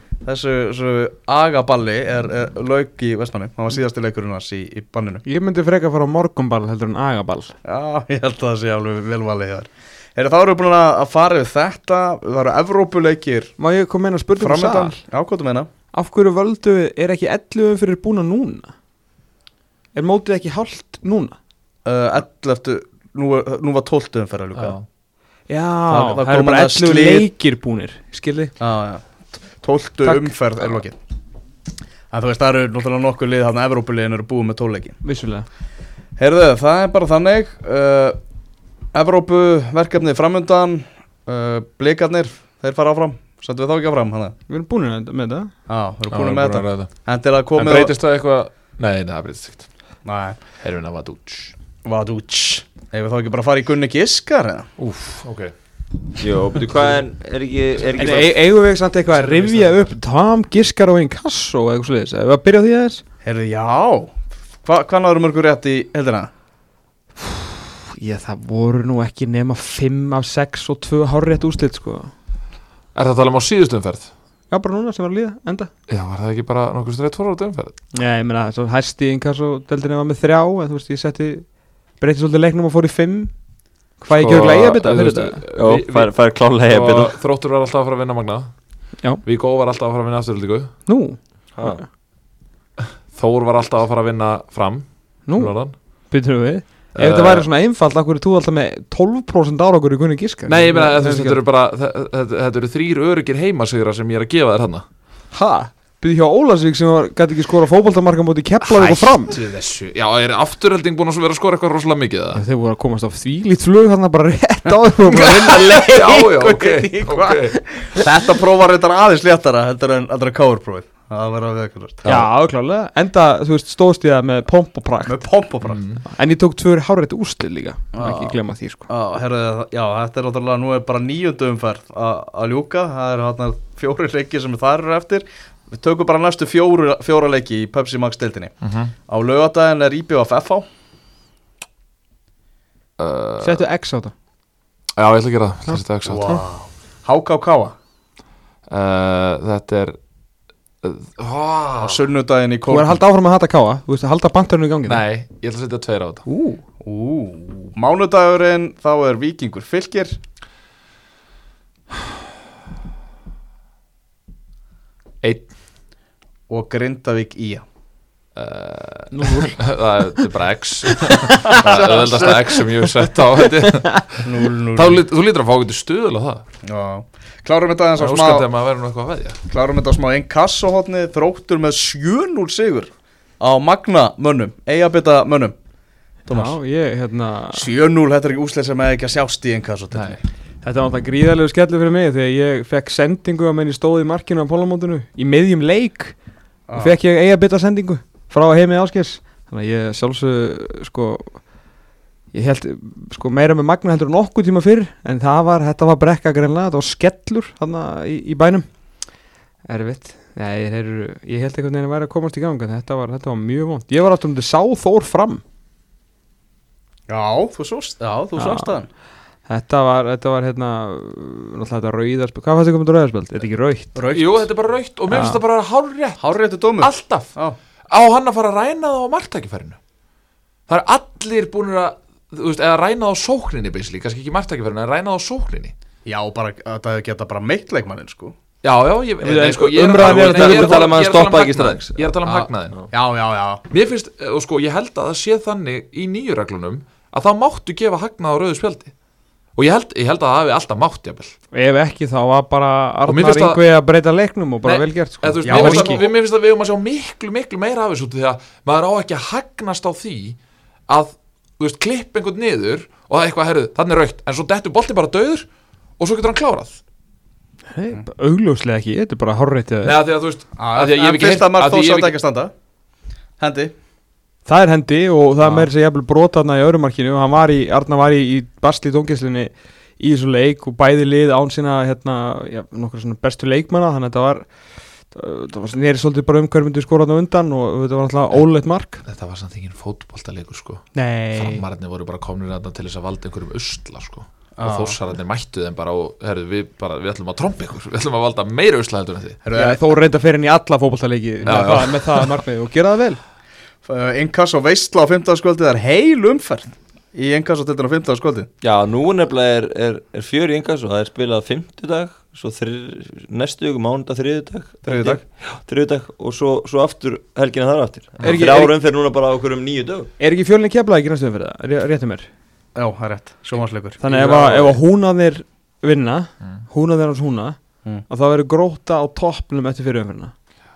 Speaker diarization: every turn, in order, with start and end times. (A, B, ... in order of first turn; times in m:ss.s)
0:00.2-0:05.2 A
0:05.2-0:07.5 B
0:07.6-0:13.5 A
0:13.6-0:15.0 B
0:14.4-0:15.7 A
0:15.9-0:18.7 B
0:19.9-0:21.4 B
0:21.8-0:24.8 A
0:24.5-0:24.8 C
0:25.5-0:28.5 B
0:25.9-0:27.3 A
0:28.6-0:31.0 A
0:30.0-0:30.4 B
0:32.1-0:35.0 A
0:35.0-0:35.4 B
0:36.2-0:38.2 A
0:38.9-0:44.4 A
0:44.5-0:45.5 B
0:45.7-0:47.9 A
0:46.1-0:49.7 C
0:50.0-0:50.4 A
0:50.6-0:51.5 C
0:51.8-0:54.7 A
0:54.8-0:55.2 B
0:55.2-0:55.5 C
0:56.2-0:58.4 D
0:57.9-1:03.0 B
0:59.2-0:59.8 C
1:03.2-1:06.3 A
1:08.0-1:12.1 B
1:12.9-1:14.1 C
1:14.5-1:15.7 B
1:15.9-1:17.8 C
1:17.9-1:23.4 B
1:24.0-1:25.4 B
1:24.1-1:30.8 C
1:25.5-1:27.2 D
1:30.8-1:31.8 B
1:31.5-1:31.8 D
1:33.1-1:35.7 C
1:35.2-1:35.6 B
1:36.1-1:41.4 B
1:36.9-1:37.4 C
1:40.4-1:44.8 C
1:45.3-1:49.3 B
1:48.6-1:52.4 C
1:52.3-1:58.0 B
1:55.1-1:57.8 C
1:57.9-2:02.0 A
2:02.0-2:05.2 B
2:05.0-2:05.9 A
2:05.6-2:06.0 C
2:06.1-2:08.9 B
2:07.9-2:20.6 A
2:18.6-2:18.9 C
2:23.0-2:23.6 C
2:23.4-2:24.1 B
2:25.0-2:26.3 C
2:25.6-2:26.4 B
2:26.0-2:27.7 A
2:28.7-2:30.0 C
2:30.8-2:32.0 C
2:31.8-2:33.0 A
2:32.7-2:35.0 B
2:34.8-2:36.2 C
2:36.3-2:36.6 B
2:36.8-2:40.2 A
2:45.2-2:45.5 C
2:46.5-2:47.6 A
2:48.3-2:56.4 C
2:49.1-2:49.6 B
2:51.5-2:52.1 A
2:54.2-2:55.0 A
2:56.6-2:58.4 A
2:58.0-2:59.4 C
2:59.5-3:05.6 A
3:06.2-3:06.6 A
3:06.3-3:07.6 B
3:07.5-3:10.2 A
3:09.9-3:10.2 C
3:10.6-3:16.2 B
3:16.7-3:16.9 A
3:16.7-3:21.5 B
3:22.3-3:28.7 B
3:29.7-3:35.4 B
3:37.1-3:38.9 A
3:38.4-3:38.8 B
3:39.4-3:44.0 B
3:43.9-3:44.4 A
3:44.1-3:47.4 C
3:45.1-3:45.4 B
3:46.2-3:47.6 A
3:47.9-3:49.8 C
3:50.7-3:55.7 C
3:56.0-3:58.3 A
3:58.6-4:02.9 C
3:59.2-4:00.9 B
4:00.0-4:02.1 D
4:02.3-4:03.6 A
4:03.7-4:08.9 C
4:09.5-4:11.4 C
4:11.5-4:16.0 B
4:13.1-4:13.6 C
4:14.6-4:26.8 C
4:15.4-4:16.1 A
4:27.7-4:30.0 B
4:29.8-4:32.1 C
4:30.6-4:32.5 A
4:33.4-4:33.7 A
4:34.4-4:44.5 B
4:45.1-4:49.0 B
4:49.0-4:59.4 C
4:50.9-4:51.6 B
4:54.6-4:55.0 A
4:59.4-4:59.8 A
4:59.5-5:03.2 B
5:01.4-5:01.7 A
5:01.4-5:02.3 C
5:03.8-5:08.5 A
5:08.6-5:20.1 D
5:14.9-5:15.2 A
5:18.2-5:18.7 B
5:20.2-5:22.3 B
5:22.7-5:24.8 A
5:24.0-5:30.3 B